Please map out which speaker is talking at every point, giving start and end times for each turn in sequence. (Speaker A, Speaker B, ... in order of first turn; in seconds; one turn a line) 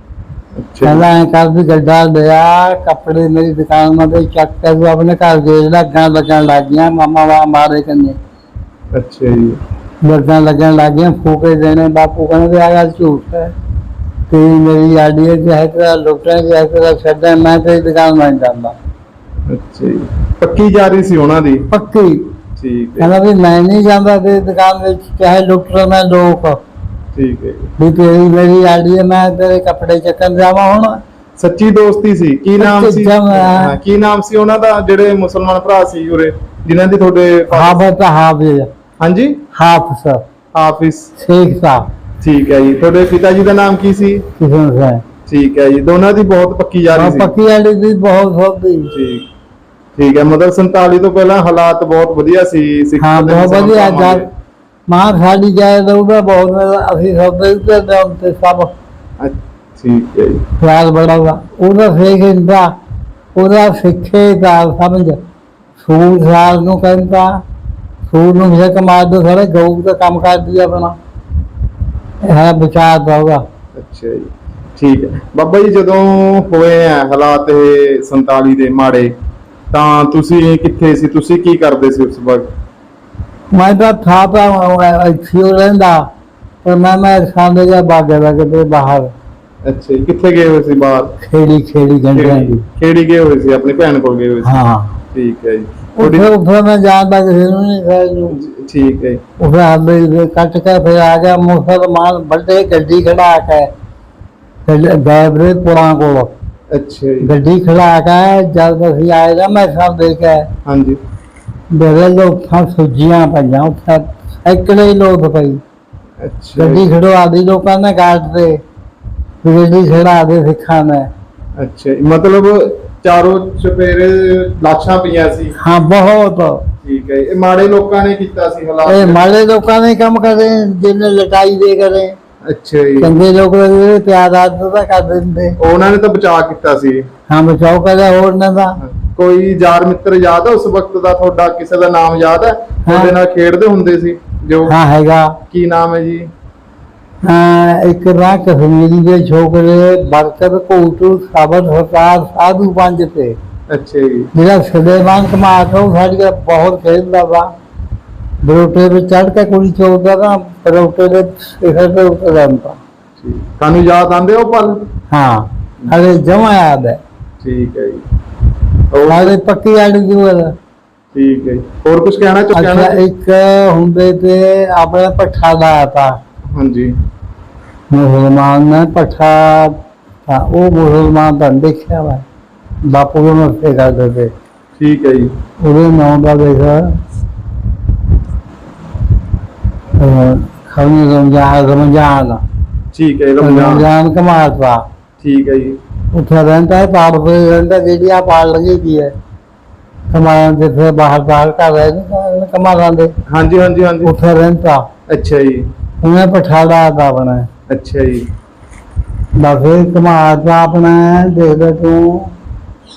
Speaker A: 0.6-1.1
Speaker B: 0.8-8.2
Speaker A: 8.9-9.6
Speaker B: 10.0-13.5
Speaker B: 14.3-18.8
Speaker A: 19.5-21.6
Speaker B: 21.7-22.2
Speaker A: 22.6-23.1
Speaker B: 23.0-26.6
Speaker A: 27.1-27.7
Speaker B: 27.8-31.0
Speaker A: 31.4-37.8
Speaker B: 32.6-33.8
Speaker B: 37.5-38.7
Speaker A: 39.0-39.4
Speaker B: 39.5-40.2
Speaker A: 40.5-41.1
Speaker B: 41.2-41.9
Speaker A: 42.2-44.2
Speaker B: 44.4-45.0
Speaker A: 45.3-47.3
Speaker B: 46.9-48.9
Speaker A: 48.9-49.3
Speaker A: 50.0-54.2
Speaker B: 53.0-54.2
Speaker B: 54.9-58.7
Speaker A: 59.2-60.5
Speaker B: 60.6-62.7
Speaker B: 63.4-65.2
Speaker B: 65.8-67.4
Speaker B: 68.1-71.0
Speaker B: 72.2-73.4
Speaker A: 73.8-79.2
Speaker A: 79.7-82.5
Speaker B: 83.5-86.1
Speaker B: 86.6-89.1
Speaker A: 89.7-91.1
Speaker B: 91.2-92.6
Speaker A: 92.1-94.5
Speaker B: 94.4-95.0
Speaker A: 95.1-96.3
Speaker B: 96.0-98.4
Speaker A: 98.3-99.2
Speaker B: 99.4-103.7
Speaker B: 104.7-106.3
Speaker A: 106.7-107.3
Speaker B: 107.2-110.5
Speaker A: 110.7-111.0
Speaker B: 111.7-115.6
Speaker A: 116.2-116.9
Speaker B: 116.6-118.6
Speaker B: 119.4-121.1
Speaker A: 121.6-125.6
Speaker B: 125.6-126.6
Speaker A: 126.8-129.2
Speaker B: 128.9-132.1
Speaker A: 132.4-133.2
Speaker B: 133.0-135.6
Speaker A: 135.6-137.1
Speaker B: 137.3-138.8
Speaker A: 138.8-144.7
Speaker B: 142.9-143.1
Speaker B: 144.7-145.4
Speaker A: 145.5-146.3
Speaker B: 147.2-153.3
Speaker A: 153.7-154.3
Speaker B: 154.3-157.5
Speaker B: 158.4-162.8
Speaker A: 163.2-164.8
Speaker B: 165.1-167.0
Speaker A: 167.4-168.0
Speaker A: 168.9-169.4
Speaker B: 169.1-170.5
Speaker A: 171.1-173.0
Speaker B: 172.5-176.2
Speaker A: 176.5-176.9
Speaker B: 177.9-182.2
Speaker B: 182.8-184.3
Speaker A: 184.8-185.3
Speaker B: 185.6-186.8
Speaker B: 190.0-192.4
Speaker A: 192.9-193.9
Speaker B: 193.4-194.8
Speaker A: 195.2-195.8
Speaker B: 196.1-199.1
Speaker B: 200.1-203.2
Speaker A: 203.3-204.1
Speaker B: 204.1-204.8
Speaker A: 205.1-205.7
Speaker B: 206.0-207.5
Speaker A: 207.7-208.3
Speaker B: 209.4-212.3